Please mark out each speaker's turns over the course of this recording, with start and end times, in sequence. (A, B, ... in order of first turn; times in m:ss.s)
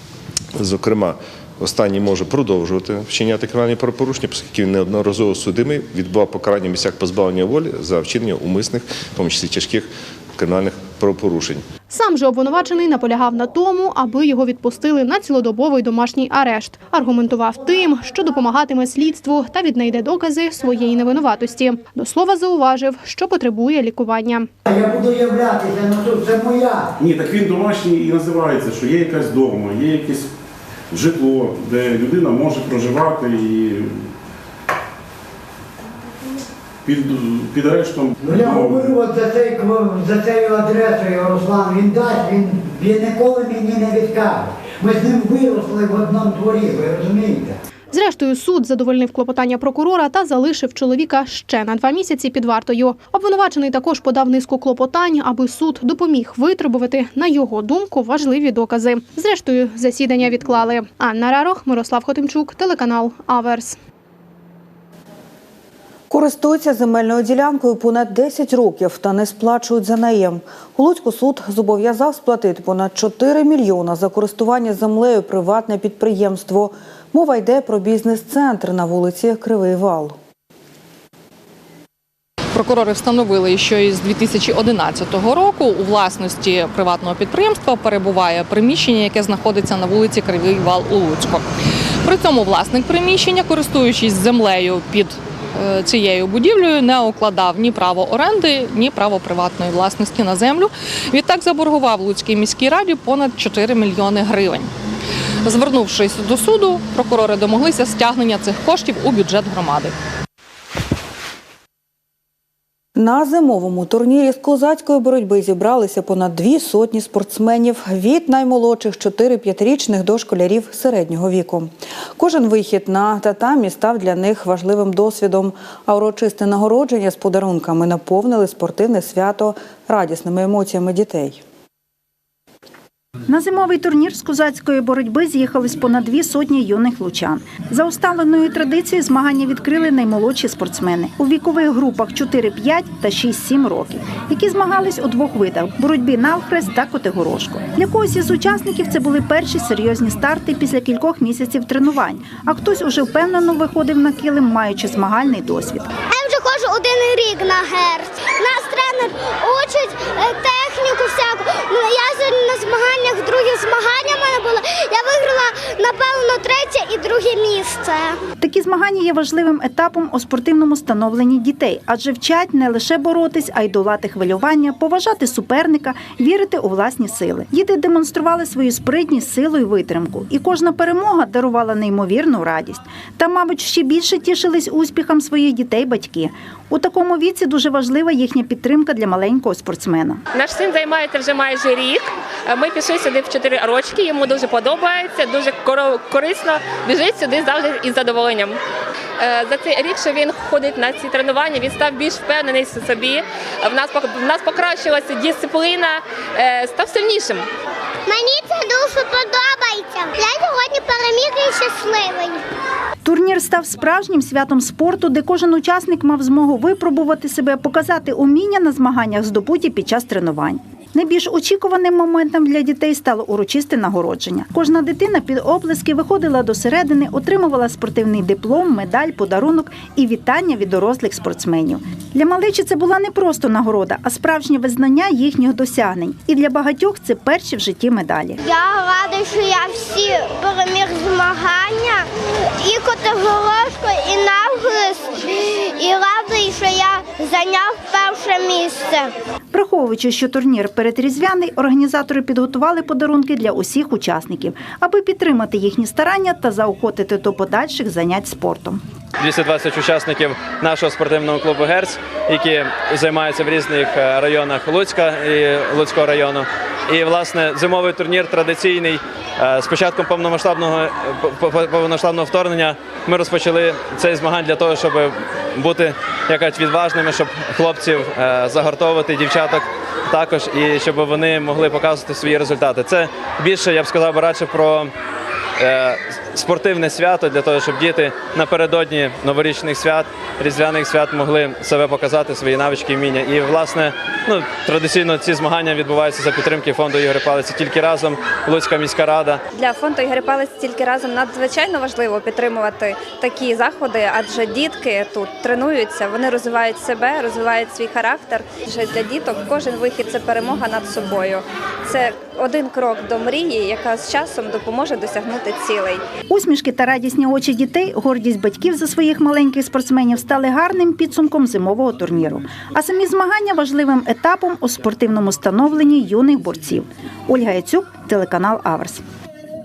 0:00.6-0:11.6 A
0:11.9-0:24.5 B
0:24.7-0:26.9 C
0:27.0-0:30.3 D
0:30.9-0:34.1 D
0:36.8-0:39.0 D
0:38.2-0:47.6 C
0:47.9-1:03.8 B
1:06.1-1:20.2 E
1:22.5-1:31.4 F
1:32.0-1:44.7 F
1:45.4-1:49.9 F
1:53.0-2:11.4 E
2:13.3-2:35.9 G
2:36.1-2:48.2 H
2:48.4-3:10.2 G
3:10.3-3:18.6 I
3:19.2-3:27.5 I
3:28.1-3:32.4 H
3:33.0-3:58.4 G
3:58.4-4:09.1 H
4:09.5-4:18.8 G
4:19.2-4:44.9 J
4:45.6-4:59.4 J
4:59.5-5:16.0 K
5:16.3-5:29.0 G